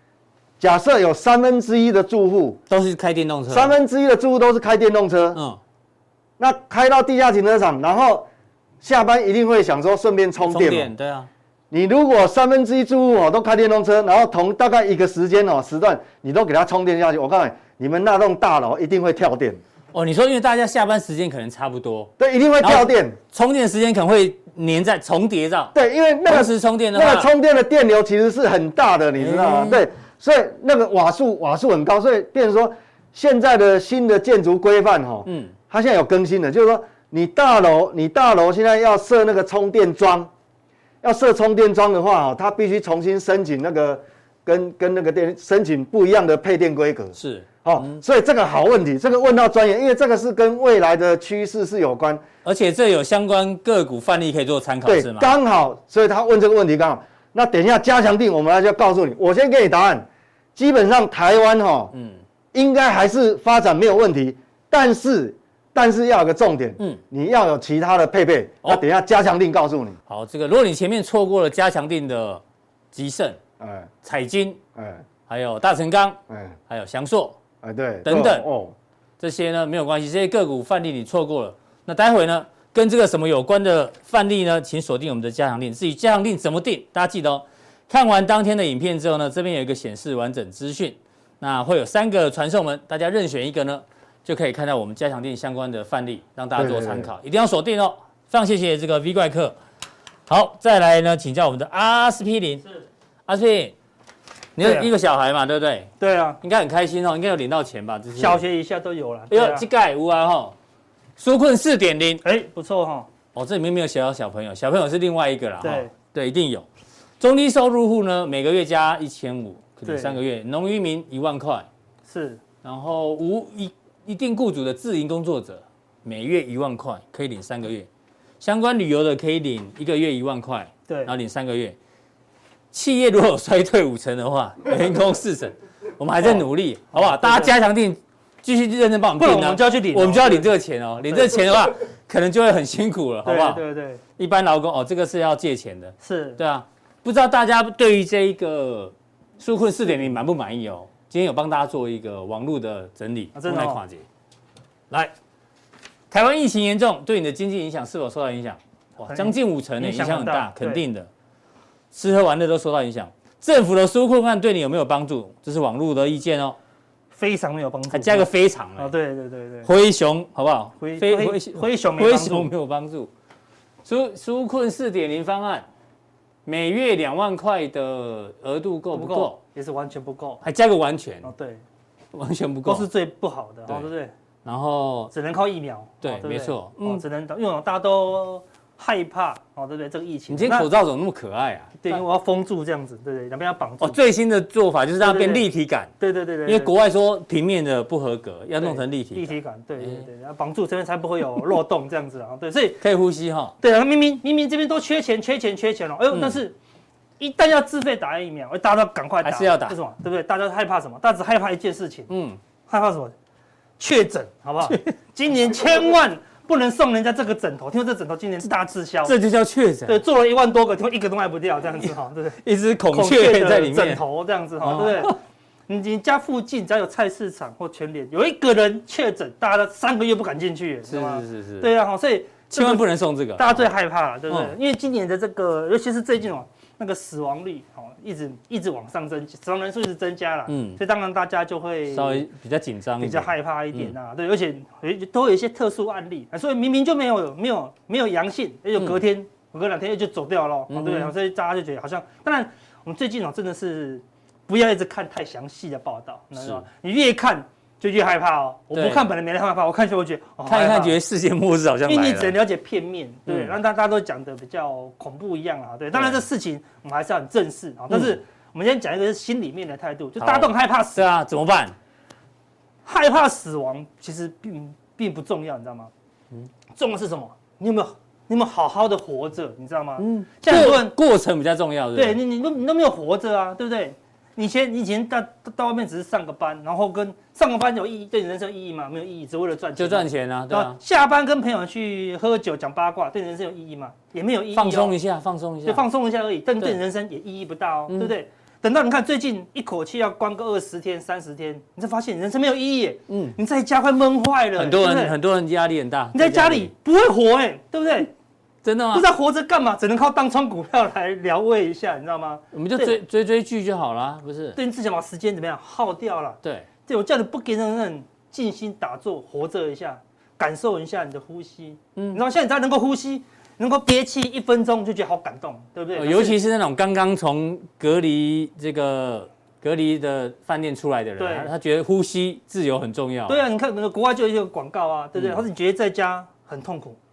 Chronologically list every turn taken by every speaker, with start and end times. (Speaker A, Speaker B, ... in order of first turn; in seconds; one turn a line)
Speaker A: 0.6-2.6
Speaker B: 2.7-3.7
Speaker A: 3.5-5.4
Speaker B: 5.3-5.6
Speaker A: 6.4-8.3
Speaker A: 8.8-10.9
Speaker B: 10.4-11.3
Speaker A: 11.7-19.6
Speaker B: 19.9-25.7
Speaker A: 22.2-23.2
Speaker A: 25.7-40.3
Speaker B: 26.2-27.3
Speaker B: 29.2-29.8
Speaker B: 35.2-35.5
Speaker A: 41.0-52.2
Speaker B: 47.1-48.0
Speaker B: 52.4-55.4
Speaker A: 54.9-61.9
Speaker B: 61.9-62.2
Speaker A: 62.5-70.0
Speaker B: 70.1-72.4
Speaker B: 72.9-73.4
Speaker A: 73.6-73.9
Speaker B: 74.0-74.6
Speaker A: 74.7-75.0
Speaker B: 75.3-76.2
Speaker A: 76.3-76.5
Speaker B: 76.7-77.4
Speaker A: 77.6-78.7
Speaker B: 78.0-78.5
Speaker B: 79.2-99.5
Speaker A: 96.5-97.1
Speaker B: 100.3-102.7
Speaker B: 103.3-103.7
Speaker B: 104.5-105.9
Speaker C: 104.6-104.9
Speaker C: 106.0-106.4
Speaker B: 106.4-108.4
Speaker C: 108.2-109.6
Speaker B: 109.3-110.5
Speaker B: 111.2-112.2
Speaker C: 112.2-113.1
Speaker B: 113.3-116.7
Speaker C: 115.6-115.9
Speaker B: 117.2-121.7
Speaker C: 119.8-120.2
Speaker C: 122.0-122.4
Speaker B: 122.6-127.9
Speaker B: 128.4-131.8
Speaker C: 130.9-131.1
Speaker B: 132.7-143.6
Speaker C: 136.9-137.5
Speaker C: 139.2-140.5
Speaker C: 141.1-141.4
Speaker C: 143.2-144.0
Speaker B: 144.2-154.0
Speaker C: 146.0-146.4
Speaker C: 153.3-153.8
Speaker B: 156.1-161.1
Speaker C: 159.0-160.8
Speaker B: 161.9-166.6
Speaker C: 167.1-169.7
Speaker B: 167.9-168.9
Speaker B: 169.6-173.1
Speaker C: 170.8-172.5
Speaker B: 173.8-175.7
Speaker B: 176.4-179.4
Speaker C: 178.9-180.4
Speaker B: 180.4-181.3
Speaker C: 181.2-181.6
Speaker B: 182.1-182.9
Speaker C: 182.7-184.1
Speaker B: 184.4-185.1
Speaker C: 185.1-190.7
Speaker B: 186.0-187.0
Speaker B: 190.3-192.0
Speaker C: 191.8-194.0
Speaker B: 193.8-195.9
Speaker C: 195.0-195.4
Speaker C: 196.0-196.7
Speaker B: 196.4-200.1
Speaker C: 198.6-202.8
Speaker B: 202.8-203.5
Speaker C: 203.6-206.5
Speaker B: 206.1-206.4
Speaker C: 207.2-212.1
Speaker B: 209.2-209.8
Speaker B: 212.1-212.4
Speaker C: 212.7-213.1
Speaker C: 213.8-219.2
Speaker B: 214.7-214.9
Speaker B: 219.0-220.0
Speaker C: 219.9-225.2
Speaker B: 222.4-224.0
Speaker B: 224.6-225.2
Speaker C: 225.7-242.2
Speaker B: 230.9-231.7
Speaker B: 232.5-233.7
Speaker B: 234.3-234.5
Speaker B: 240.5-240.8
Speaker B: 241.9-243.9
Speaker C: 243.0-261.0
Speaker B: 250.7-251.1
Speaker B: 256.4-256.6
Speaker B: 258.7-259.1
Speaker B: 260.4-262.3
Speaker C: 261.9-271.0
Speaker B: 263.3-263.5
Speaker B: 265.9-266.2
Speaker B: 270.2-271.7
Speaker C: 272.8-275.9
Speaker C: 276.7-280.9
Speaker B: 280.0-282.2
Speaker C: 281.9-294.9
Speaker B: 289.8-290.8
Speaker B: 294.5-295.8
Speaker C: 295.6-305.1
Speaker B: 303.1-303.4
Speaker B: 304.6-306.7
Speaker C: 306.1-308.1
Speaker B: 308.6-309.1
Speaker C: 308.9-313.0
Speaker B: 312.5-314.6
Speaker C: 314.6-326.4
Speaker B: 321.9-322.2
Speaker B: 325.9-333.4
Speaker C: 331.2-331.5
Speaker C: 333.3-337.0
Speaker B: 335.1-335.4